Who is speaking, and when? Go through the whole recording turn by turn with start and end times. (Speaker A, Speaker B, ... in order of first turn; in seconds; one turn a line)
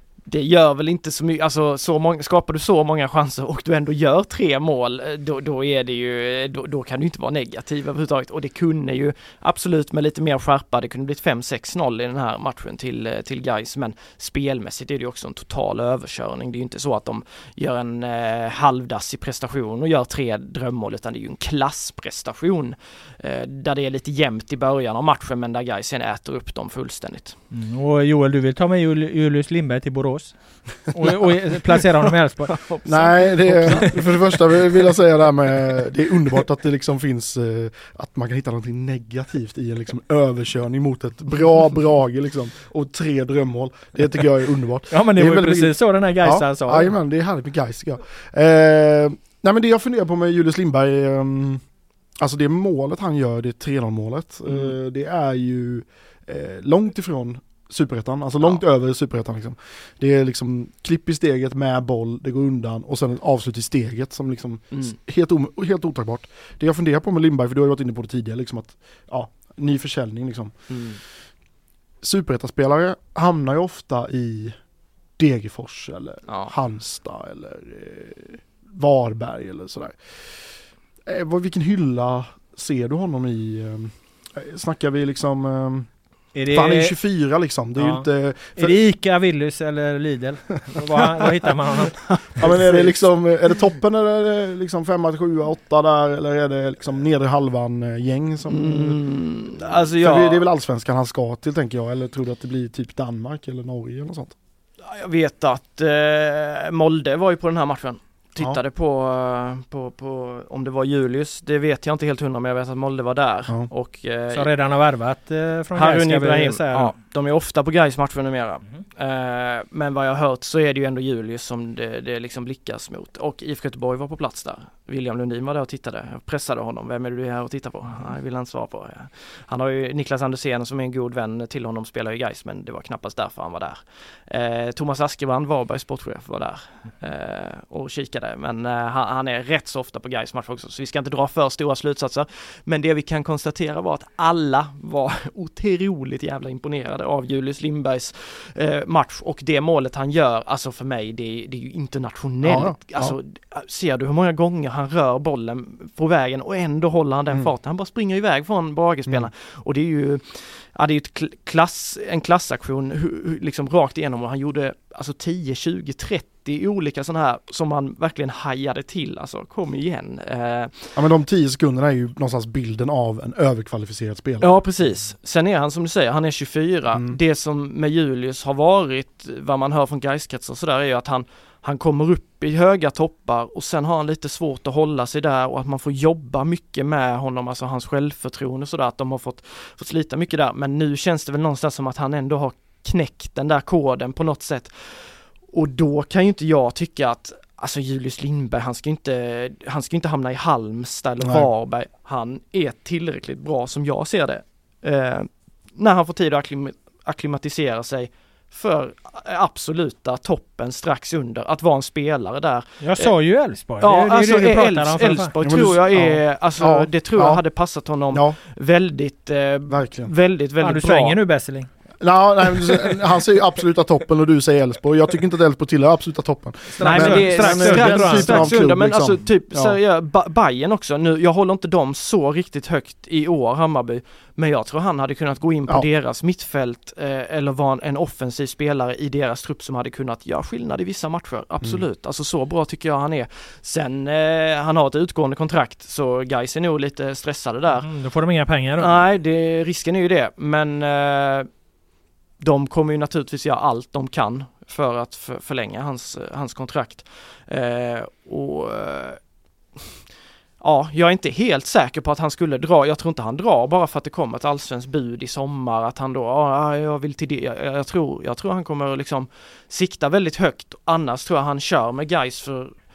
Speaker A: 0.2-27.4
Speaker B: 27.5-32.7
Speaker A: 32.5-34.0
Speaker C: 32.9-51.6
Speaker B: 44.9-46.9
Speaker C: 52.2-70.8
Speaker A: 54.5-54.7
Speaker A: 70.7-71.0
Speaker C: 72.0-74.6
Speaker C: 75.2-80.4
Speaker A: 76.3-76.5
Speaker C: 81.0-85.9
Speaker B: 86.3-86.9
Speaker C: 86.5-88.8
Speaker B: 87.8-88.0
Speaker B: 88.5-92.0
Speaker A: 92.0-93.0
Speaker C: 92.4-99.0
Speaker A: 98.5-100.4
Speaker C: 99.5-104.3
Speaker A: 104.8-114.5
Speaker B: 114.3-116.9
Speaker A: 115.7-170.9
Speaker C: 152.4-153.2
Speaker C: 170.9-174.5
Speaker A: 174.4-213.1
Speaker C: 201.2-201.5
Speaker B: 212.8-215.3
Speaker A: 213.8-221.2
Speaker C: 215.4-217.4
Speaker C: 218.1-218.4
Speaker C: 219.7-220.1
Speaker B: 220.6-221.7
Speaker C: 222.0-229.8
Speaker B: 226.8-228.6
Speaker A: 226.8-247.9
Speaker B: 247.8-249.0
Speaker A: 248.8-251.5
Speaker A: 252.4-259.2
Speaker A: 260.6-272.7